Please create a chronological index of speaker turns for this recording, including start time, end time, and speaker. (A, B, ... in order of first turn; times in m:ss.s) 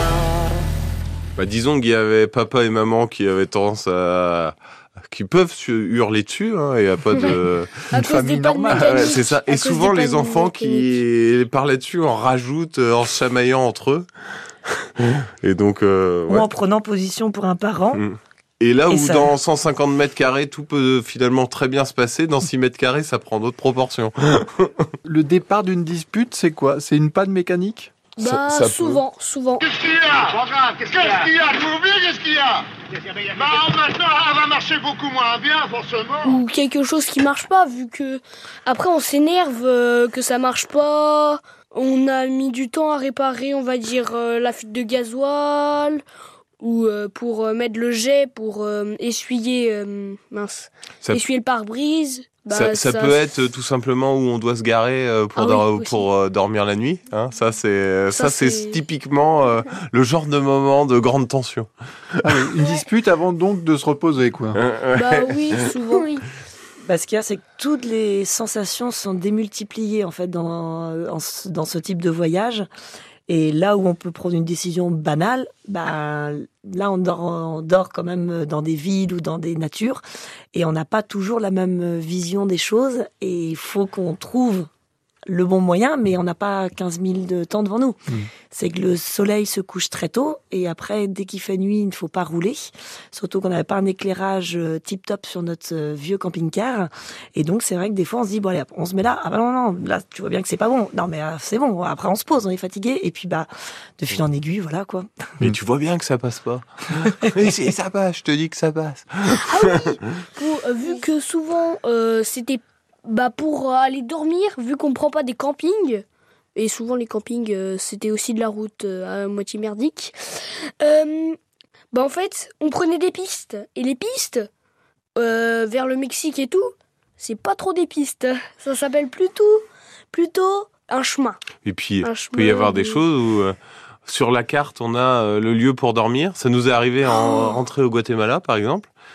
0:01.4-0:04.6 A
0:05.1-0:07.9 A
0:07.9-0:09.1 B
0:07.9-0:11.0 C
0:08.7-0:14.1 A
0:15.0-0:16.5 A
0:16.3-0:18.0 D
0:17.9-0:24.9 A
0:18.9-0:19.3 D
0:25.0-0:27.9 B
0:28.2-0:29.6 C
0:28.2-0:28.9 A
0:29.6-0:32.7 E
0:33.3-0:36.4 E
0:36.2-0:46.0 C
0:46.6-0:53.2 C
0:52.5-1:01.7 A
0:55.4-0:56.1 C
0:58.1-0:58.8 C
1:02.2-1:04.6 B
1:04.5-1:05.7 A
1:04.9-1:06.2 C
1:06.8-1:12.6 D
1:13.3-1:20.0 D
1:20.5-1:24.7 D
1:25.3-1:28.0 D
1:28.5-1:45.2 D
1:45.4-1:49.8 A
1:49.4-1:56.0 C
1:56.5-2:01.4 C
2:01.9-2:04.5 C
2:05.2-2:11.4 C
2:11.6-2:18.9 A
2:12.0-2:13.0 C
2:17.1-2:17.5 C